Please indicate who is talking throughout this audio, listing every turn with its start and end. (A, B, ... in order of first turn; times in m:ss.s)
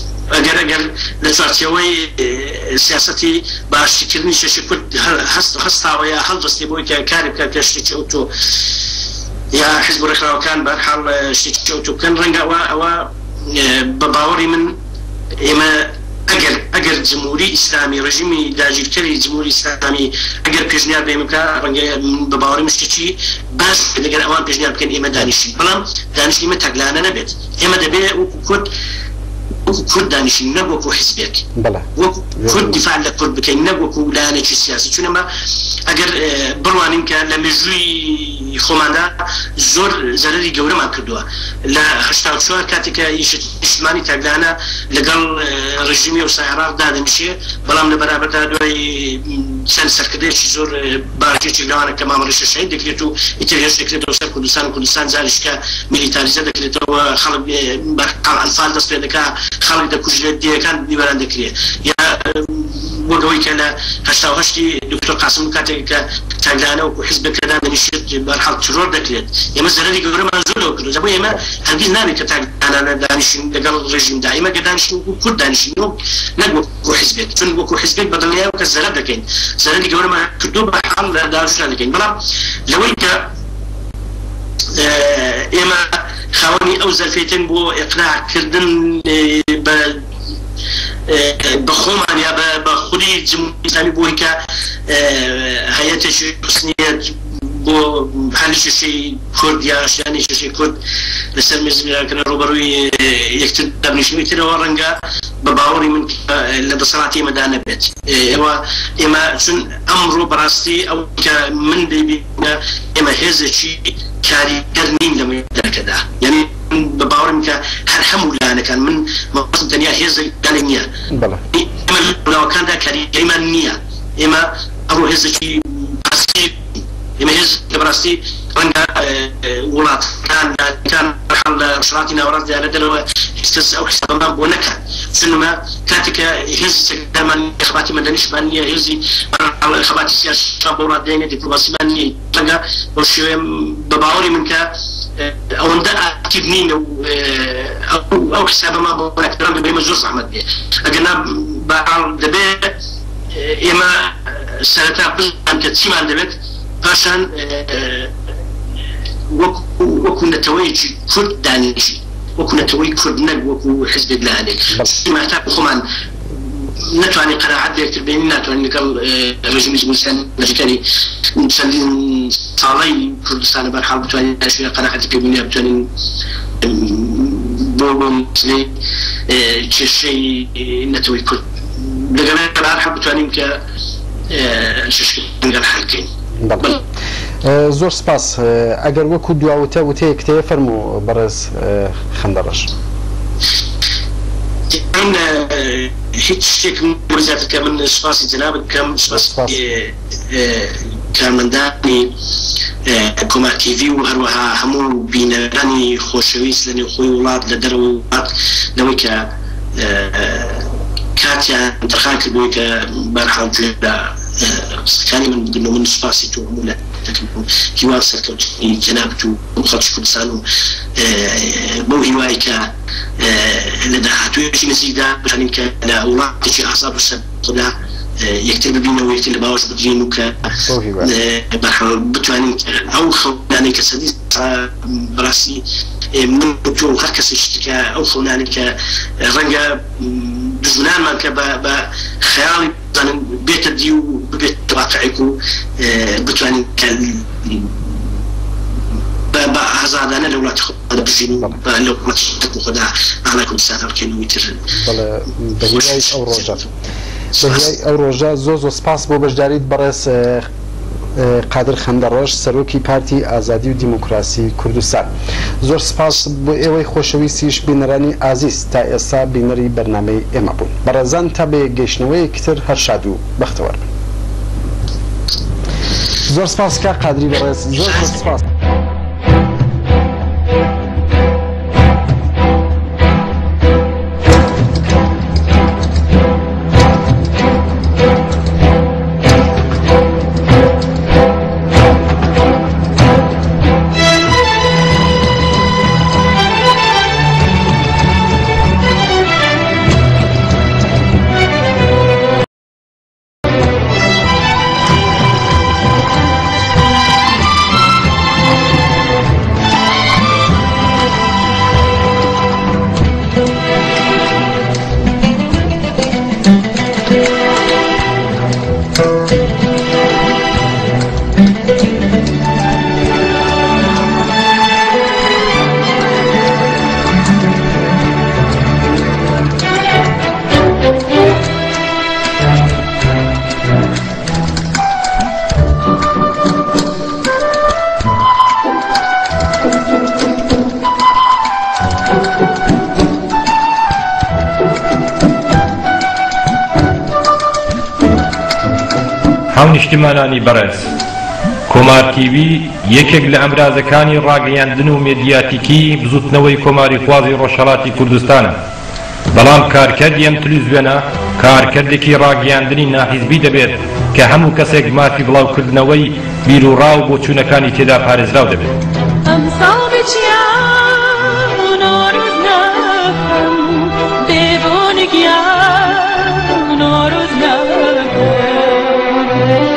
0:00.3-0:08.8 A
0:09.5-0:14.8 A
0:15.4-0:28.7 A
0:29.6-0:35.3 A
0:31.6-0:32.8 B
0:35.8-1:23.3 A
1:24.7-1:30.1 A
1:31.1-1:40.8 A
1:41.3-2:00.9 A
2:01.1-2:01.4 B
2:01.5-2:32.8 A
2:33.3-2:38.1 A
2:39.3-2:45.9 A
2:46.6-2:55.9 A
2:56.6-2:58.8 A
2:59.3-3:03.6 A
3:04.3-3:06.8 A
3:06.4-3:06.7 B
3:07.4-3:12.7 B
3:14.7-3:22.2 A
3:19.1-3:19.6 B
3:22.8-4:07.8 A
3:50.7-3:51.1 B
4:09.3-4:14.7 A
4:14.7-4:16.7 B
4:15.6-4:16.6 A
4:17.4-4:17.7 A
4:17.4-4:20.5 B
4:21.1-4:25.1 B
4:25.6-4:33.8 B
4:36.2-4:38.5 B
4:37.9-4:38.2 A
5:49.5-5:50.9 C
5:51.7-5:58.6 C
5:59.3-6:08.7 C
6:09.2-6:19.4 D